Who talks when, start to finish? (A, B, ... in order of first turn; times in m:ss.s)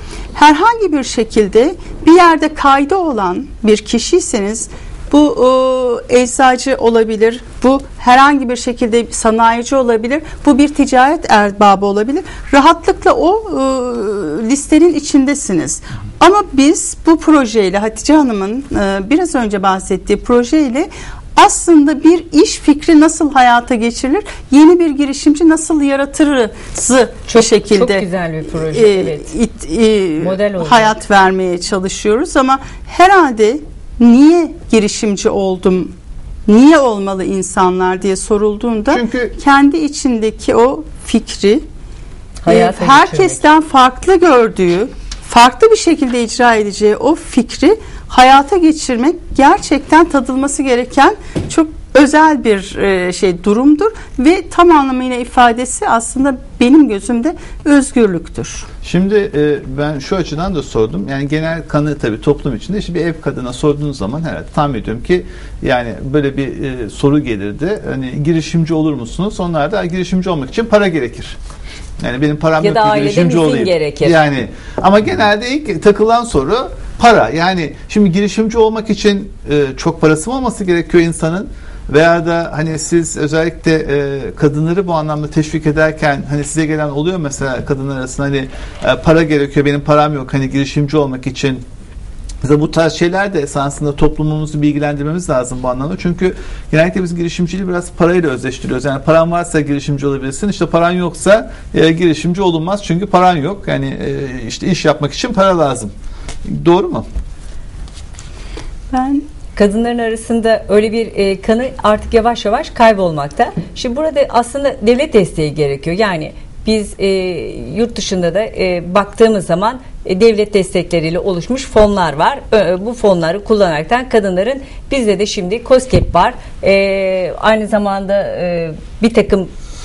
0:00.3-0:35.9 A
0:27.3-0:29.3 B
0:30.2-0:30.9 B
0:36.4-0:41.6 A
0:38.9-0:39.3 C
0:42.4-0:43.4 B
0:42.5-0:58.7 A
0:58.8-1:11.4 C
1:12.0-1:31.6 C
1:12.6-1:14.2 B
1:32.4-1:45.9 C
1:46.4-1:47.0 C
1:48.9-1:49.2 A
1:49.6-2:09.5 B